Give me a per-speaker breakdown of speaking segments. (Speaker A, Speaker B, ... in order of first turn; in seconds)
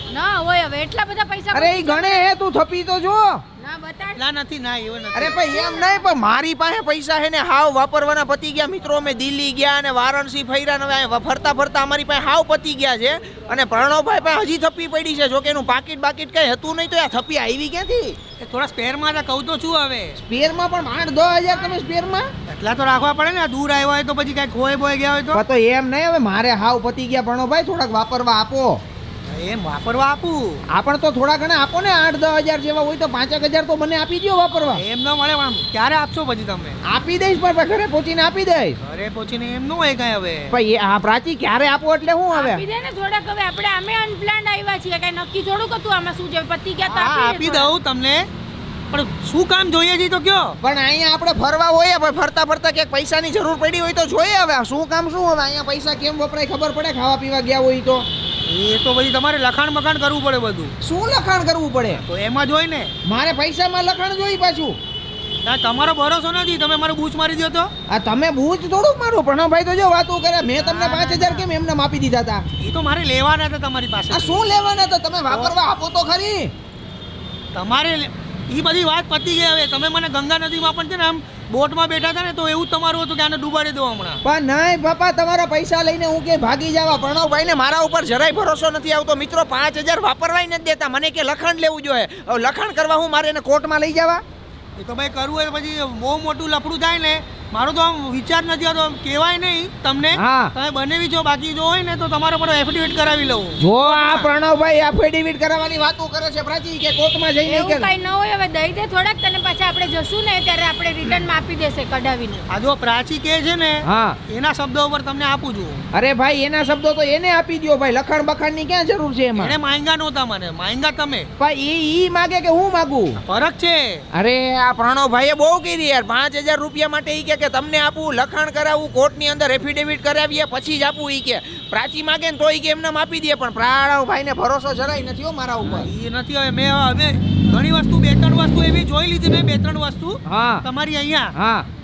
Speaker A: 0.1-2.3, 3.6-4.2, 5.4-6.1, 42.3-47.7, 107.4-112.4
Speaker B: 1.5-3.4, 5.1-18.2, 20.2-22.3, 25.3-28.8, 30.7-34.8, 36.8-38.8, 40.5-42.6, 50.6-58.0, 60.8-62.0, 63.0-64.8, 67.9-72.4, 74.1-76.5, 84.2-94.2, 100.1-100.5, 103.6-107.9, 113.8-114.2, 115.9-119.5, 121.4-123.2, 124.1-135.9, 140.2-140.6, 141.3-141.7
Speaker C: 4.1-5.4, 18.4-20.2, 22.5-25.4, 29.3-30.6, 34.7-36.8, 38.8-40.5, 46.9-48.3, 48.9-50.6, 58.5-60.7, 61.9-62.9, 65.4-67.7, 70.6-71.5, 72.6-74.4, 75.3-75.6, 77.5-84.2, 94.8-104.3, 112.5-115.8, 119.3-121.3, 123.2-124.0, 135.6-141.3